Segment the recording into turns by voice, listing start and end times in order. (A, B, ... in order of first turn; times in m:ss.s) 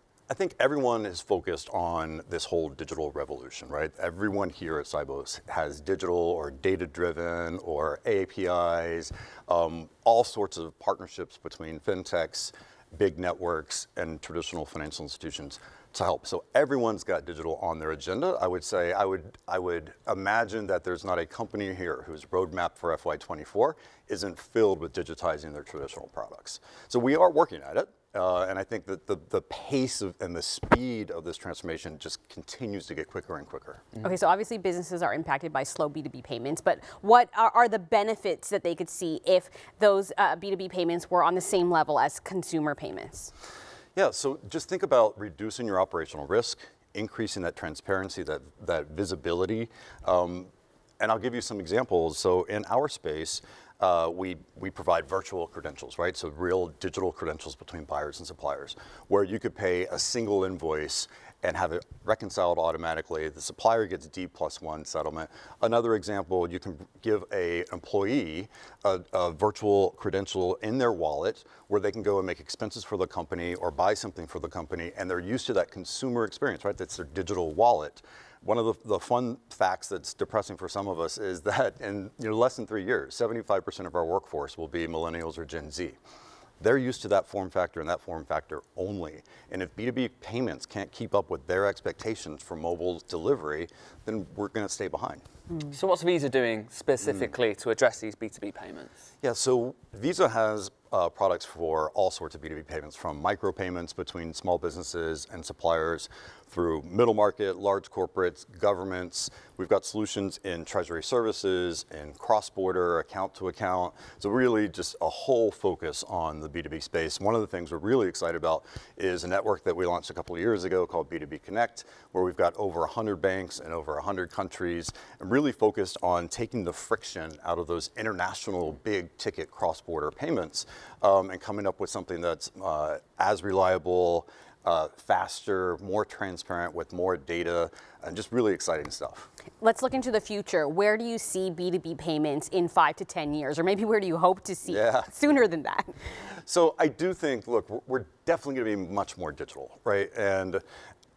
0:00.3-0:33.8 A
0:34.0-0:43.3 B
0:44.0-1:26.0 A
1:26.6-1:35.2 A
1:35.7-1:38.9 C
1:39.2-2:19.3 A
2:19.6-2:25.9 B
2:24.7-2:25.1 A
2:26.5-2:30.6 A